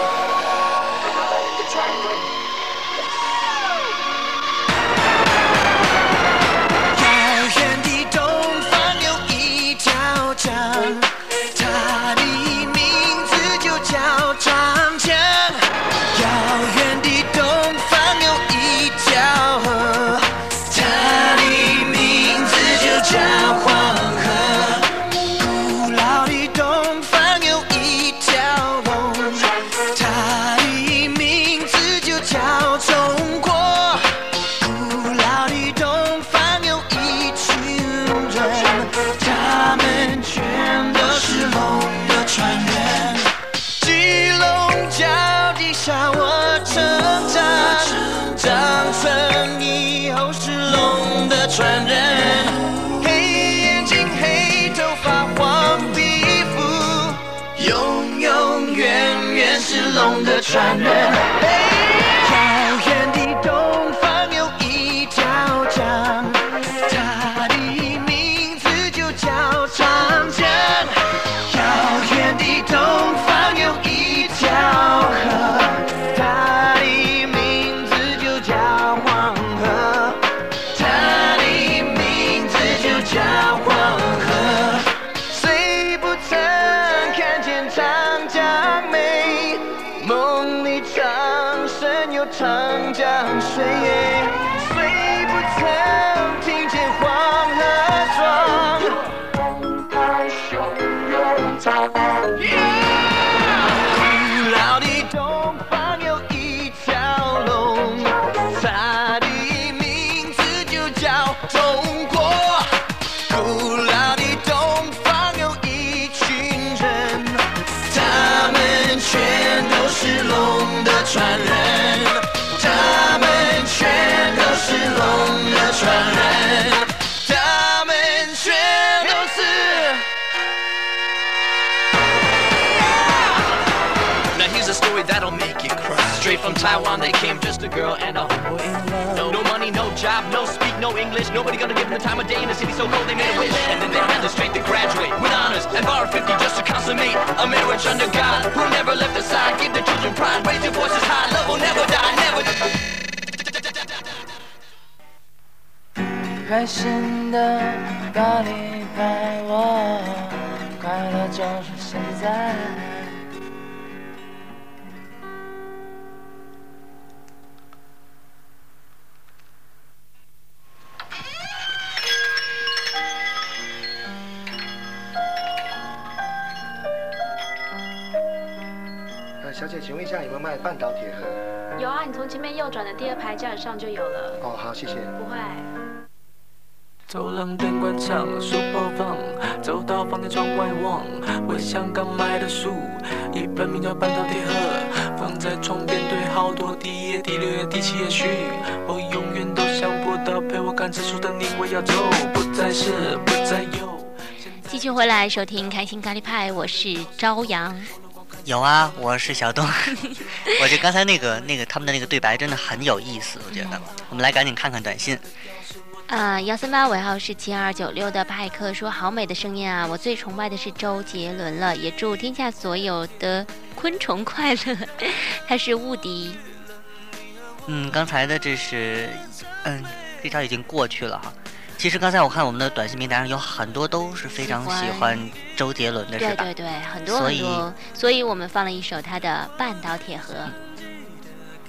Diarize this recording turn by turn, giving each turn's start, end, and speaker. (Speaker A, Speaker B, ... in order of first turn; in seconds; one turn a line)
Speaker A: 6.9-34.0
Speaker A: 34.6-71.0
Speaker A: 71.5-80.2
Speaker A: 80.7-99.0
Speaker A: 102.3-112.7
Speaker A: 113.3-130.0
Speaker B: 134.3-138.5
Speaker C: 136.2-137.1
Speaker C: 138.3-139.4
Speaker B: 139.1-152.5
Speaker C: 156.3-163.2
Speaker D: 179.4-181.4
Speaker E: 181.8-184.4
Speaker D: 184.4-185.1
Speaker E: 185.2-185.7
Speaker F: 187.1-204.2
Speaker G: 204.7-207.9
Speaker H: 208.4-215.2
Speaker G: 213.5-213.8
Speaker G: 216.1-226.4
Speaker H: 227.7-236.5
Speaker G: 234.4-235.2
Speaker G: 236.2-240.5
Speaker H: 237.1-237.7